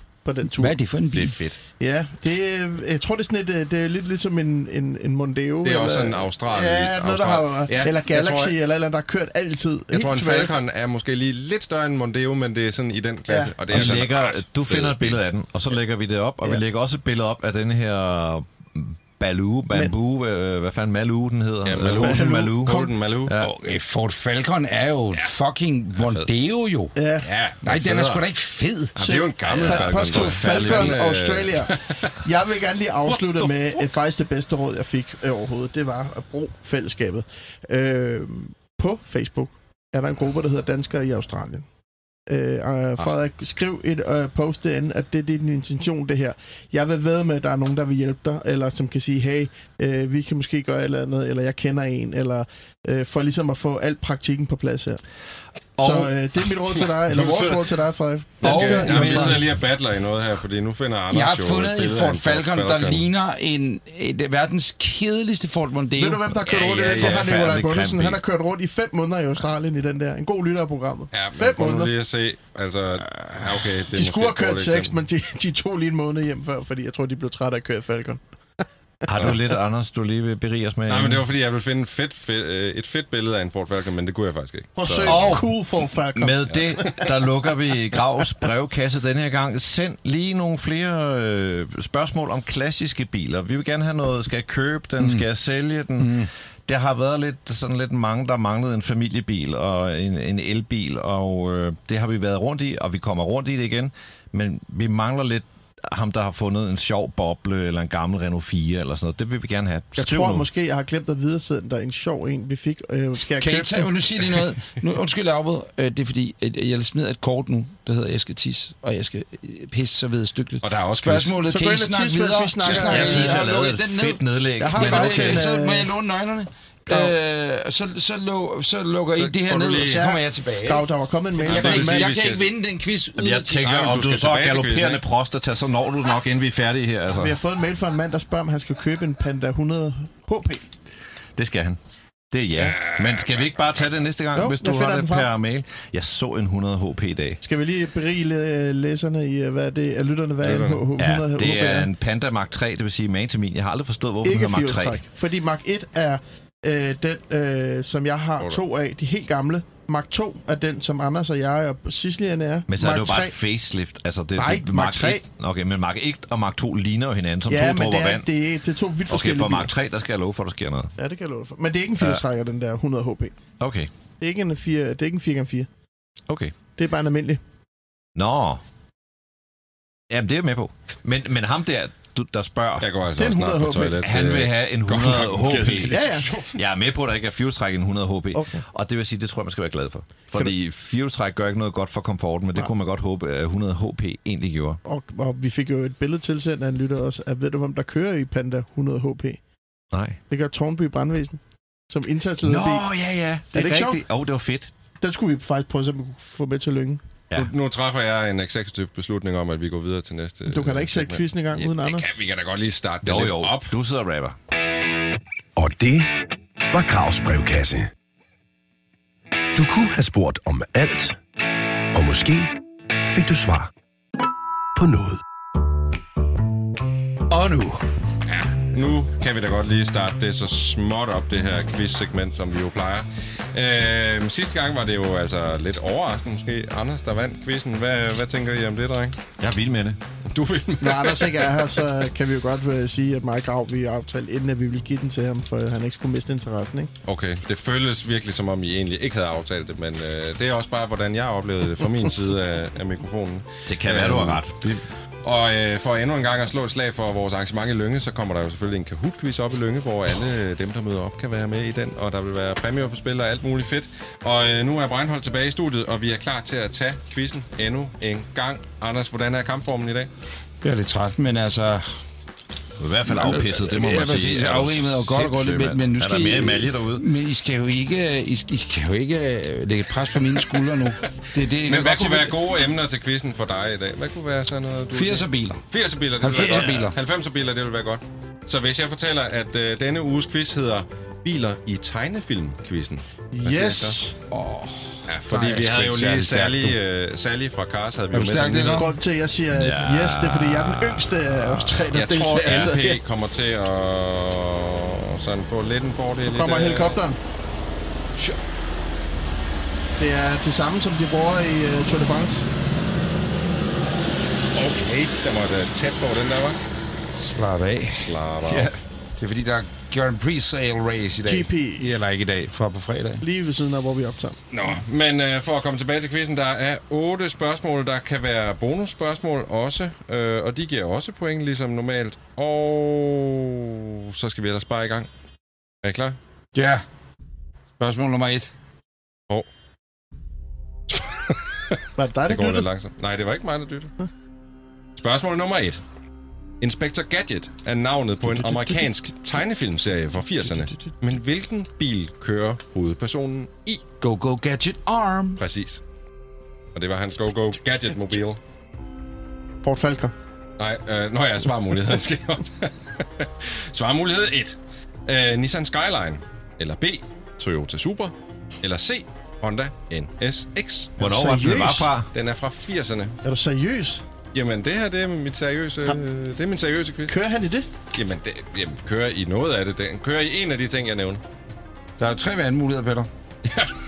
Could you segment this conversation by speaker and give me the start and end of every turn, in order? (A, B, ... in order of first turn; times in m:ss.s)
0:00.2-0:00.8 A
0:00.6-0:01.4 B
0:01.2-0:01.4 C
0:01.2-0:01.5 D
0:01.8-0:10.6 A
0:05.6-0:08.6 C
0:09.9-0:15.2 C
0:13.3-0:13.9 A
0:13.7-0:23.5 D
0:21.6-0:23.3 C
0:22.0-0:22.9 A
0:23.4-0:26.9 B
0:25.9-0:26.3 C
0:27.0-0:27.3 A
0:27.2-0:28.2 C
0:27.6-0:29.0 B
0:28.9-0:32.1 C
0:29.0-0:41.6 A
0:29.5-0:31.1 D
0:33.0-0:33.9 C
0:42.3-0:55.0 A
0:55.8-0:56.1 D
0:55.8-0:59.4 A
0:56.8-0:57.7 C
0:58.4-1:03.1 C
0:58.4-0:59.3 B
0:58.5-0:59.4 D
1:01.1-1:06.4 B
1:06.0-1:11.9 A
1:06.4-1:07.3 C
1:06.9-1:08.2 D
1:11.1-1:15.0 C
1:13.9-1:18.2 A
1:19.1-1:21.2 D
1:20.9-1:25.4 C
1:24.8-1:27.1 A
1:24.9-1:25.5 D
1:26.1-1:50.5 D
1:35.0-1:35.2 B
1:36.0-1:36.3 B
1:50.0-1:53.9 A
1:53.4-2:10.8 B
2:00.6-2:01.4 C
2:01.4-2:03.5 A
2:02.7-2:05.4 D
2:04.6-2:05.9 A
2:06.9-2:07.1 A
2:09.1-2:10.1 C
2:09.8-2:12.1 A
2:11.4-2:12.5 C
2:11.4-2:13.7 B
2:13.2-2:17.4 D
2:13.6-2:15.0 C
2:17.1-2:20.6 A
2:21.4-2:21.8 D
2:22.3-2:27.4 D
2:22.6-2:23.4 C
2:24.3-2:25.3 A
2:27.4-2:31.9 A
2:30.4-2:30.9 C
2:31.0-2:35.0 D
2:34.2-2:43.3 A
2:42.7-2:48.3 D
2:44.4-2:45.2 A
2:47.5-2:49.7 A
2:49.1-2:50.9 D
2:51.0-2:53.3 A
2:52.0-2:52.2 D
2:53.6-2:53.9 D
2:54.2-2:55.7 A
2:56.3-2:56.5 D
2:56.8-2:57.4 A
2:58.1-2:58.6 D
3:00.1-3:02.9 D
3:02.8-3:06.5 C
3:03.2-3:04.1 A
3:04.0-3:14.8 D
3:05.8-3:06.2 A
3:08.3-3:08.6 A
3:14.8-3:19.4 A
3:19.9-3:20.2 D
3:20.3-3:22.9 A
3:22.4-3:24.7 D
3:23.5-3:24.0 A
3:25.0-3:27.5 A
3:27.4-3:33.7 C
3:30.5-3:32.2 A
3:33.0-3:34.4 D
3:35.6-3:36.2 E
3:36.7-3:37.9 E
3:39.5-3:41.2 E
3:41.9-3:42.5 E
3:43.0-3:43.7 E
3:44.8-3:45.2 E
3:47.3-3:47.8 D
3:48.3-3:59.2 C
3:59.4-4:00.0 D
4:00.3-4:01.7 C
4:00.8-4:06.9 A
4:07.0-4:14.5 C
4:13.6-4:14.8 D
4:15.2-4:30.1 C
4:30.6-4:31.8 B
4:32.8-4:37.0 D
4:33.1-4:42.3 B
4:41.6-4:54.0 C
4:44.9-4:45.6 B
4:46.2-4:46.9 B
4:46.3-4:46.8 D
4:53.3-4:54.1 A
4:54.3-4:56.8 B
4:55.1-4:59.0 C
4:58.1-4:58.9 B
4:58.7-5:03.0 A
4:59.5-5:02.6 D
5:01.9-5:07.0 C
5:06.2-5:07.2 A
5:10.0-5:12.5 A
5:14.5-5:16.6 C
5:17.2-5:18.1 B
5:17.9-5:18.7 C
5:18.5-5:18.8 D
5:19.2-5:23.2 B
5:21.2-5:21.8 A
5:23.2-5:24.4 A
5:24.5-5:35.1 C
5:35.8-5:36.2 C
5:36.5-5:36.8 B
5:37.8-5:38.5 B
5:40.9-5:41.7 C
5:42.0-5:42.7 A
5:42.3-5:43.9 C
5:45.0-5:45.8 C
5:46.6-5:53.8 C
5:54.0-5:55.4 B
5:55.4-5:55.8 C
5:56.7-5:58.4 C
5:59.6-6:00.1 A
6:00.6-6:10.9 C
6:11.0-6:12.1 D
6:11.0-6:11.9 A
6:12.1-6:13.2 C
6:13.2-6:14.0 A
6:14.3-6:17.1 C
6:17.0-6:17.7 A
6:17.9-6:21.2 C
6:22.0-6:23.1 B